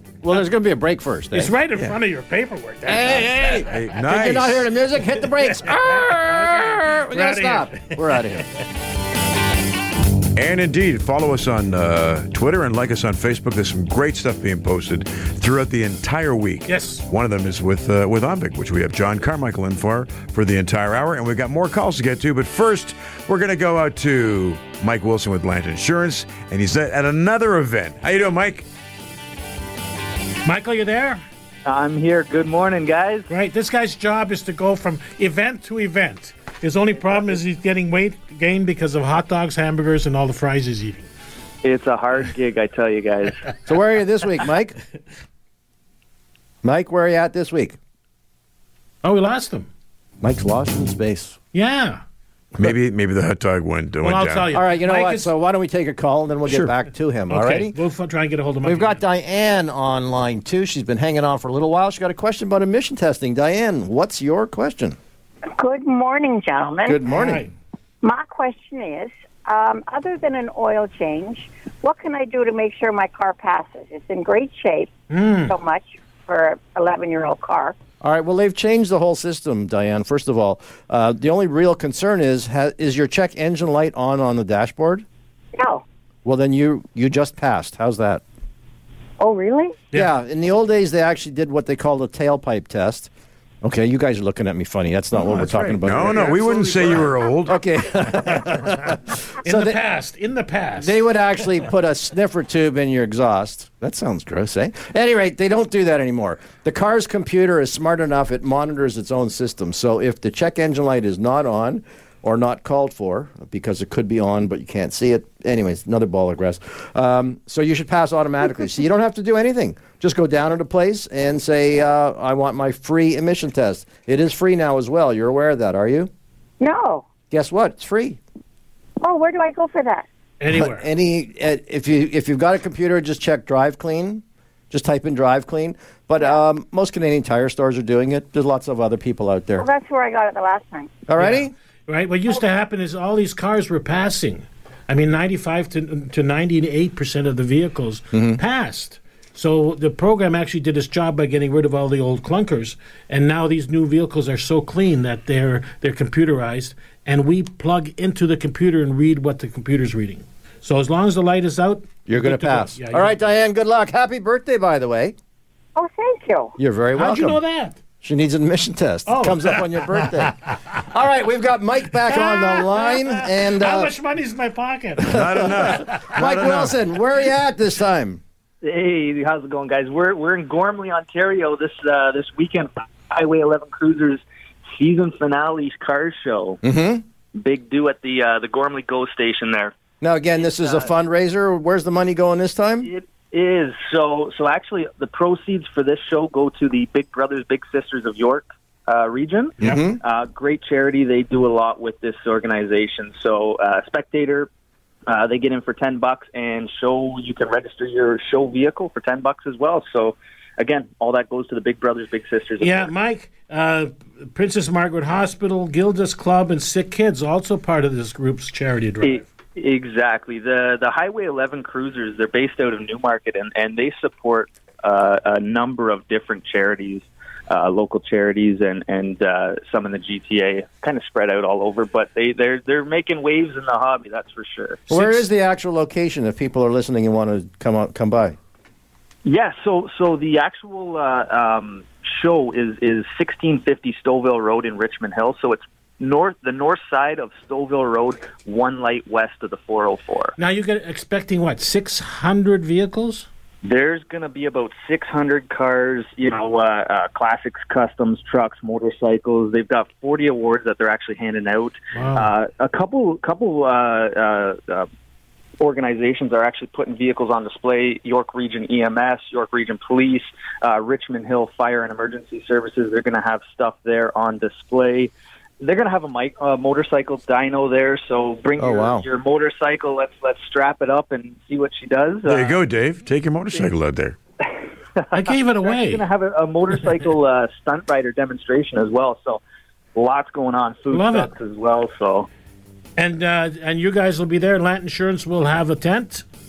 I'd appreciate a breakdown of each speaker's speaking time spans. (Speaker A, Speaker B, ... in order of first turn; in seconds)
Speaker A: 0.2-1.6, 2.9-8.4, 43.7-44.8, 46.6-47.8, 50.2-51.4, 54.5-57.8, 58.6-65.0, 66.9-67.5, 78.0-85.0, 86.2-88.2, 89.9-93.1, 93.6-99.8, 100.8-126.1, 127.3-128.2, 130.5-139.7, 141.1-141.5, 148.1-148.4, 162.1-165.2, 166.6-167.4, 168.0-173.9, 175.0-178.2, 186.6-187.0, 190.0-192.9, 199.6-200.0, 234.9-238.4, 278.6-279.1
Speaker B: 1.3-3.7, 5.9-8.4, 16.7-17.0, 30.4-31.2, 33.3-41.1, 49.0-49.7, 51.5-52.0, 54.0-55.3, 57.3-59.0, 67.1-67.5, 75.1-75.5, 95.2-97.1, 99.4-101.0, 130.4-130.9, 141.2-163.1, 167.0-167.8, 169.1-170.0, 172.1-176.2, 212.6-219.2, 234.9-235.3, 250.4-253.3, 261.9-262.3, 285.1-286.1, 290.9-291.3, 293.0-296.2
Speaker C: 3.7-4.7, 10.4-28.7, 52.6-54.5, 95.8-97.6, 175.1-176.8, 282.3-284.2
Speaker D: 31.6-33.3, 41.6-43.5, 178.6-186.6, 187.4-189.8, 190.4-190.9, 192.8-204.5, 205.1-212.9, 219.0-234.9, 239.2-250.3, 253.7-264.9, 265.6-282.6, 285.0-289.4, 289.9-292.3
Speaker E: 65.5-67.0, 68.0-74.9, 75.5-77.8, 85.5-85.8, 89.2-89.9, 126.6-127.1, 129.0-130.1, 139.6-141.0, 165.8-166.6